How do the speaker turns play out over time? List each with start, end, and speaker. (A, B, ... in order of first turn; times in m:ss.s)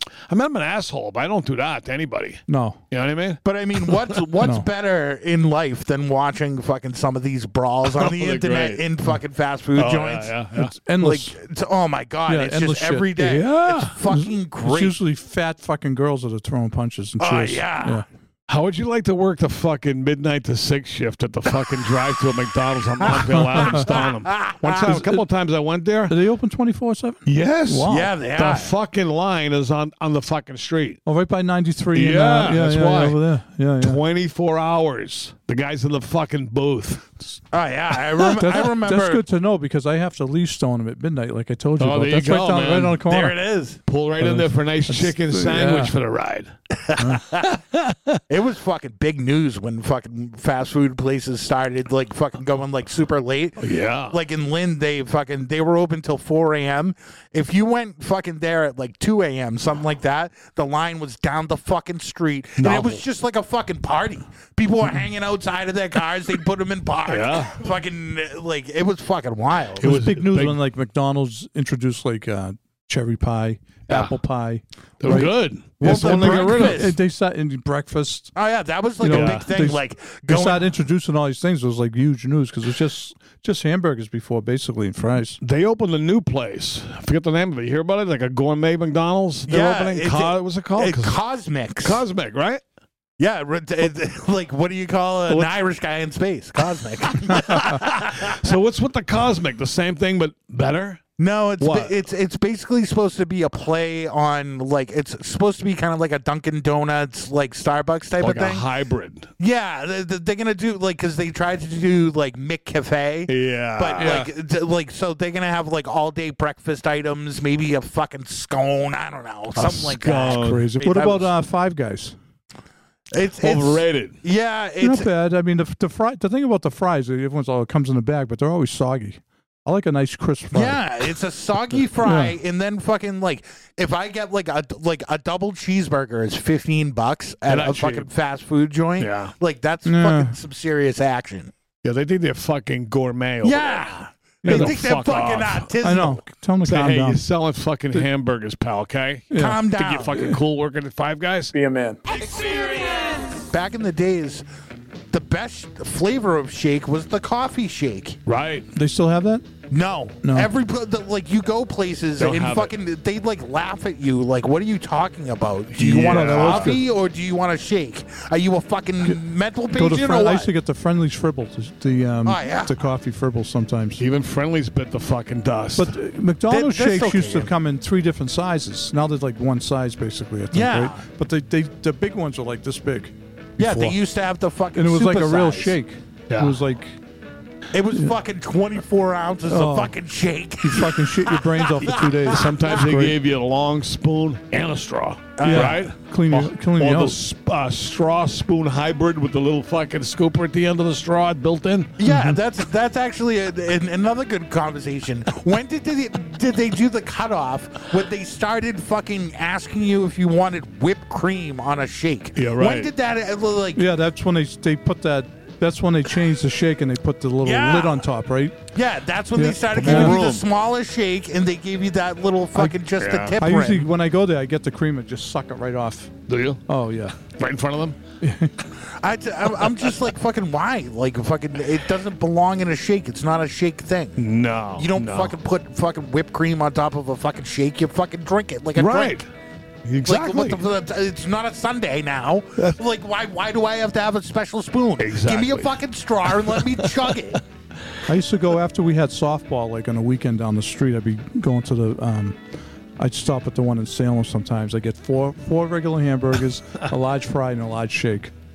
0:00.3-0:04.2 A
0:02.5-0:02.8 B
0:03.4-0:10.4 C
0:04.4-0:04.7 B
0:07.9-0:08.8 A
0:09.8-0:10.7 A
0:10.6-0:11.4 B
0:11.0-0:15.0 C
0:12.3-0:13.2 B
0:13.2-0:14.0 A
0:14.1-0:18.0 B
0:17.2-0:18.0 C
0:18.5-0:26.2 A
0:23.2-0:24.0 B
0:23.6-0:24.8 C
0:24.8-0:25.2 B
0:26.1-0:28.1 B
0:27.3-0:31.0 A
0:27.9-0:28.7 C
0:31.1-0:34.0 B
0:31.9-0:33.2 A
0:33.8-0:37.4 A
0:37.5-0:39.2 C
0:38.4-0:43.4 B
0:41.8-0:43.0 A
0:43.0-0:43.8 C
0:43.9-0:46.5 A
0:44.2-0:45.9 B
0:46.8-0:47.5 C
0:47.4-0:48.2 A
0:48.3-1:09.9 C
0:53.6-0:54.2 A
1:02.6-1:03.0 A
1:07.1-1:07.6 A
1:09.8-1:10.6 A
1:09.8-1:18.3 B
1:13.9-1:14.2 A
1:15.0-1:16.9 A
1:15.8-1:17.0 C
1:18.4-1:20.7 C
1:19.0-1:25.4 B
1:19.1-1:19.5 A
1:25.4-1:31.2 A
1:29.5-1:32.0 C
1:31.8-1:32.6 A
1:33.2-1:38.4 C
1:37.3-1:41.0 A
1:41.2-1:48.7 C
1:41.6-1:42.0 A
1:48.2-1:49.3 A
1:49.4-2:01.3 C
1:53.3-1:54.2 A
1:54.0-1:54.3 B
1:59.6-2:01.1 A
2:00.8-2:02.2 B
2:03.1-2:05.1 C
2:03.4-2:04.2 A
2:04.8-2:10.8 B
2:10.5-2:21.5 C
2:12.0-2:12.4 B
2:17.5-2:18.1 A
2:19.0-2:19.3 A
2:19.8-2:20.4 B
2:21.8-2:23.8 A
2:23.4-2:26.2 C
2:24.4-2:24.8 B
2:24.5-2:25.7 A
2:25.8-2:27.2 B
2:26.6-2:31.5 A
2:29.3-2:30.4 B
2:29.3-2:30.1 C
2:31.5-2:32.0 B
2:33.5-2:34.4 C
2:35.1-2:38.2 C
2:38.3-2:38.7 A
2:38.7-2:39.5 B
2:39.7-2:50.5 C
2:40.2-2:40.5 B
2:42.2-2:42.7 A
2:45.8-2:46.8 A
2:45.9-2:46.9 B
2:49.7-2:54.0 B
2:52.2-2:52.8 C
2:54.0-2:56.0 A
2:55.8-3:04.0 B
2:56.5-2:57.5 C
3:00.5-3:01.0 C
3:03.6-3:05.8 C
3:04.7-3:07.0 B
3:06.3-3:06.6 A
3:07.7-3:12.4 C
3:09.5-3:10.0 B
3:10.6-3:13.2 B
3:12.3-3:21.9 A
3:15.4-3:15.9 C
3:15.4-3:17.2 B
3:22.0-3:33.9 C
3:22.0-3:22.4 B
3:32.4-3:32.9 A
3:33.8-3:38.7 B
3:37.4-3:38.0 C
3:38.7-3:43.9 C
3:39.4-3:40.3 B
3:39.7-3:40.5 A
3:43.0-3:43.4 A
3:43.4-3:46.1 B
3:46.3-3:46.6 A
3:46.6-3:47.2 B
3:47.2-3:48.0 A
3:48.2-3:48.6 B
3:49.0-3:54.2 C
3:54.2-3:55.4 A
3:54.8-3:59.2 C
3:58.8-3:59.3 A
3:59.8-4:00.6 A
4:00.1-4:07.4 C
4:05.0-4:05.7 A
4:06.4-4:07.2 A
4:08.1-4:12.4 B
4:13.0-4:18.3 B